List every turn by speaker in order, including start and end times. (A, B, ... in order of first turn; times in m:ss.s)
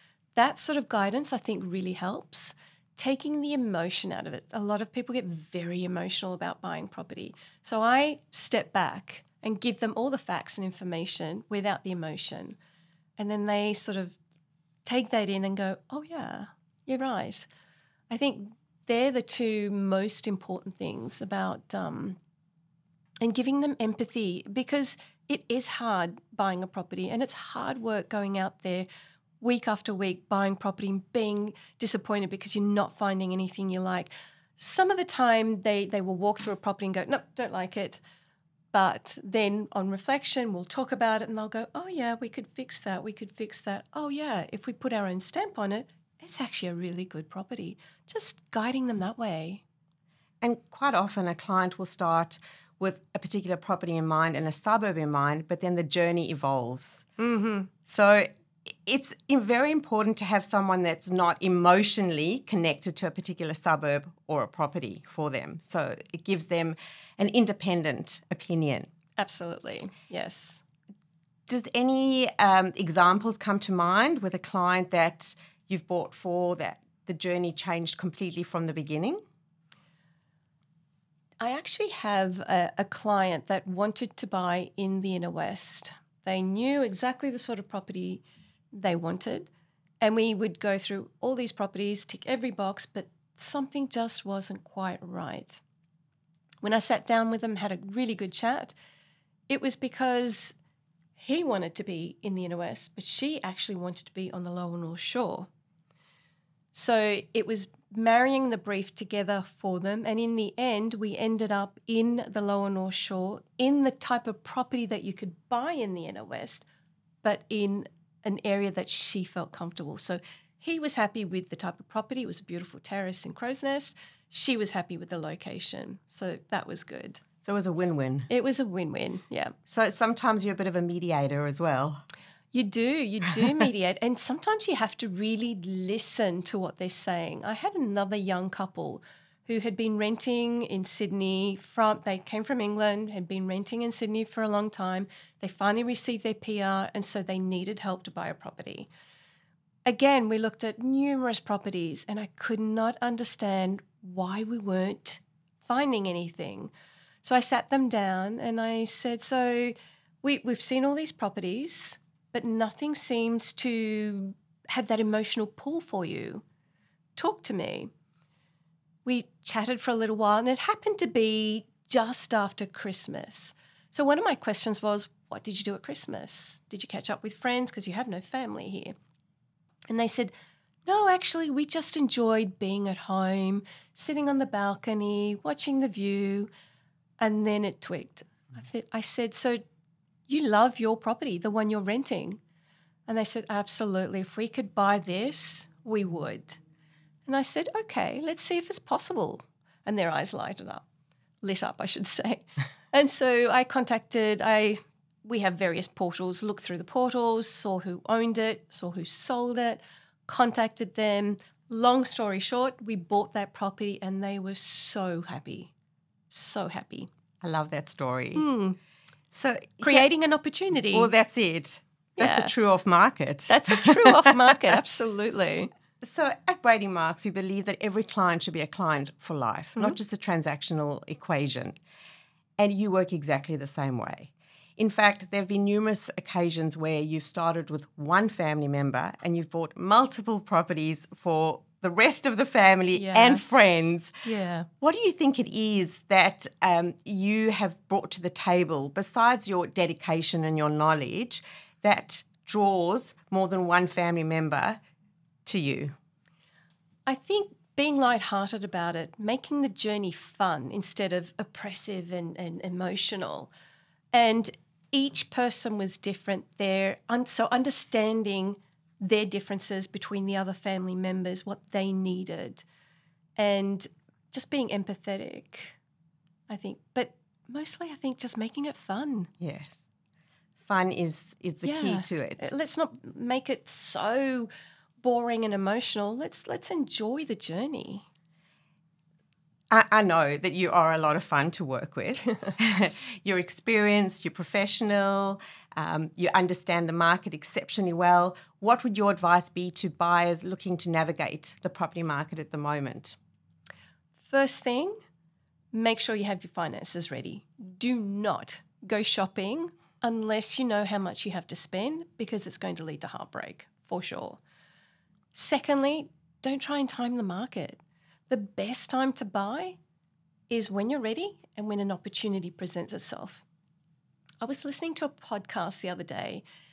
0:00.4-0:12.6 A
0:13.2-0:14.2 A
0:14.8-0:17.5 A
0:18.1-0:22.2 A
0:23.2-0:28.9 A
0:29.4-0:38.0 A
0:38.7-0:49.6 A
0:50.4-0:57.0 B
0:57.2-0:57.7 A
0:57.8-1:08.9 B
1:09.2-1:10.6 A
1:11.5-1:19.2 B
1:21.4-1:28.2 A
1:28.7-1:29.5 A
1:30.0-1:35.6 A
1:36.6-1:38.7 A
1:39.5-1:40.5 A
1:41.2-1:45.5 A
1:46.7-1:56.6 A
1:57.2-2:07.2 A
2:07.4-2:08.3 B
2:08.3-2:09.6 A
2:09.7-2:12.0 B
2:12.5-2:28.9 A
2:29.8-2:36.7 A
2:37.2-2:46.4 A
2:47.2-2:47.9 A
2:49.0-2:59.0 A
2:59.9-3:00.3 A
3:00.8-3:06.5 A
3:07.2-3:09.6 A
3:10.3-3:12.4 A
3:13.1-3:16.6 A
3:17.2-3:20.8 A
3:21.4-3:35.7 A
3:36.3-3:37.1 A
3:37.4-3:38.5 B
3:38.3-3:38.8 A
3:39.3-3:40.0 B
3:39.8-3:41.1 A
3:40.9-3:44.4 B
3:42.2-3:42.5 A
3:43.5-3:45.7 A
3:46.0-3:51.8 B
3:52.6-4:04.2 B
4:02.9-4:03.4 A
4:04.2-4:04.7 A
4:04.8-4:14.8 B
4:15.4-4:16.0 B
4:17.0-4:23.5 A
4:24.1-4:32.6 A
4:33.4-4:35.8 A
4:36.5-4:39.3 A
4:39.4-4:39.8 B
4:40.6-4:42.5 B
4:41.6-4:44.5 A
4:45.0-4:48.0 A
4:49.7-5:03.2 B
5:04.2-5:05.0 A
5:05.7-5:14.4 A
5:15.3-5:19.8 A
5:20.5-5:23.4 A
5:24.4-5:26.4 A